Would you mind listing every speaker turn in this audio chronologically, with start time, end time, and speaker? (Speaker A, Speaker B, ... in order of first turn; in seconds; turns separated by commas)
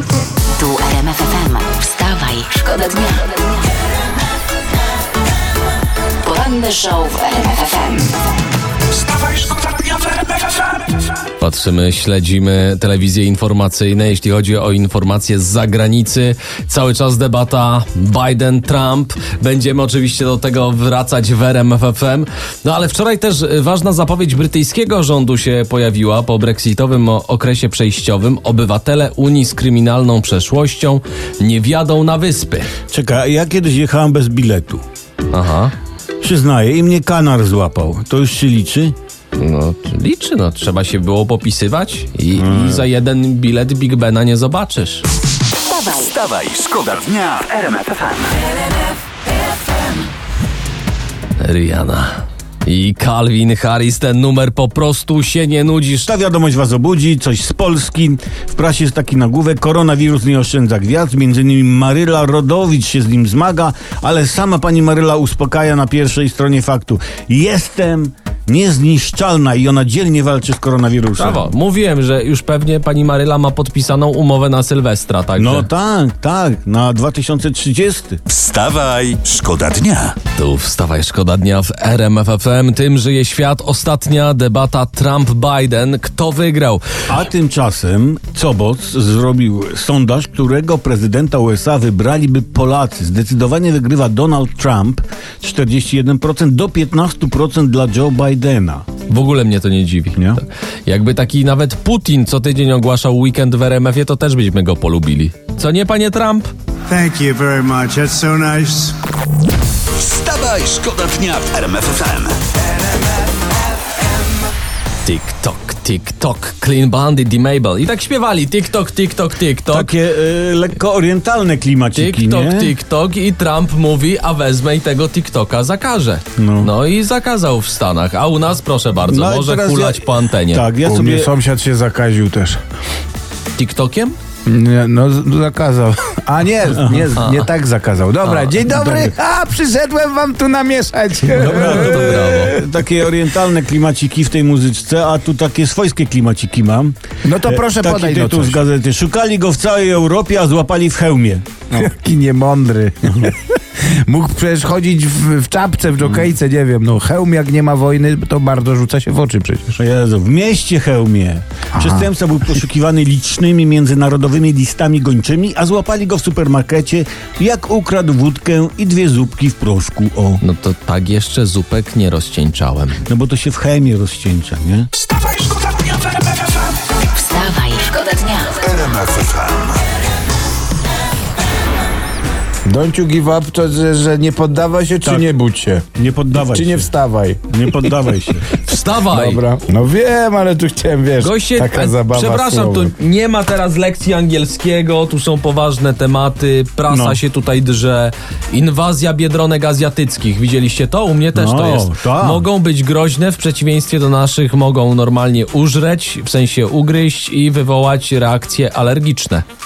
Speaker A: 0.6-3.5, Speaker A: 6.2-8.1, Speaker B: 11.4-32.7, Speaker C: 32.9-34.8, Speaker B: 35.3-35.7, Speaker C: 36.2-39.0, Speaker B: 39.3-45.0, Speaker C: 42.4-42.8, Speaker A: 45.7-46.2, Speaker D: 46.0-48.3, Speaker B: 51.4-56.1, Speaker C: 56.0-71.5, Speaker B: 71.2-75.7, Speaker C: 75.4-78.2, Speaker D: 78.3-80.2, Speaker B: 80.3-86.8, Speaker C: 87.1-98.8, Speaker B: 99.1-106.5, Speaker C: 100.2-100.4, Speaker E: 106.9-109.0, Speaker D: 110.0-112.4, Speaker E: 110.5-112.1, Speaker B: 115.0-119.9, Speaker C: 119.7-122.7, Speaker B: 121.9-130.7, Speaker C: 126.4-126.7, Speaker C: 129.0-131.3, Speaker F: 130.8-132.6, Speaker B: 133.6-134.2, Speaker F: 134.5-142.8, Speaker C: 136.7-137.2, Speaker B: 137.2-137.4, Speaker C: 138.5-139.1, Speaker C: 141.3-151.9, Speaker B: 141.4-142.6, Speaker F: 147.2-148.6, Speaker F: 151.7-159.8, Speaker C: 156.0-156.3, Speaker C: 159.8-170.4, Speaker F: 161.7-162.1, Speaker B: 170.4-173.1, Speaker C: 173.1-174.9, Speaker A: 177.1-178.9, Speaker D: 178.8-179.7, Speaker C: 178.9-179.6, Speaker F: 182.7-188.0, Speaker C: 185.0-185.3, Speaker C: 186.0-186.9, Speaker C: 187.5-188.5, Speaker B: 188.6-189.4, Speaker F: 189.0-192.9, Speaker B: 191.2-209.4, Speaker C: 196.9-197.2, Speaker C: 201.3-202.4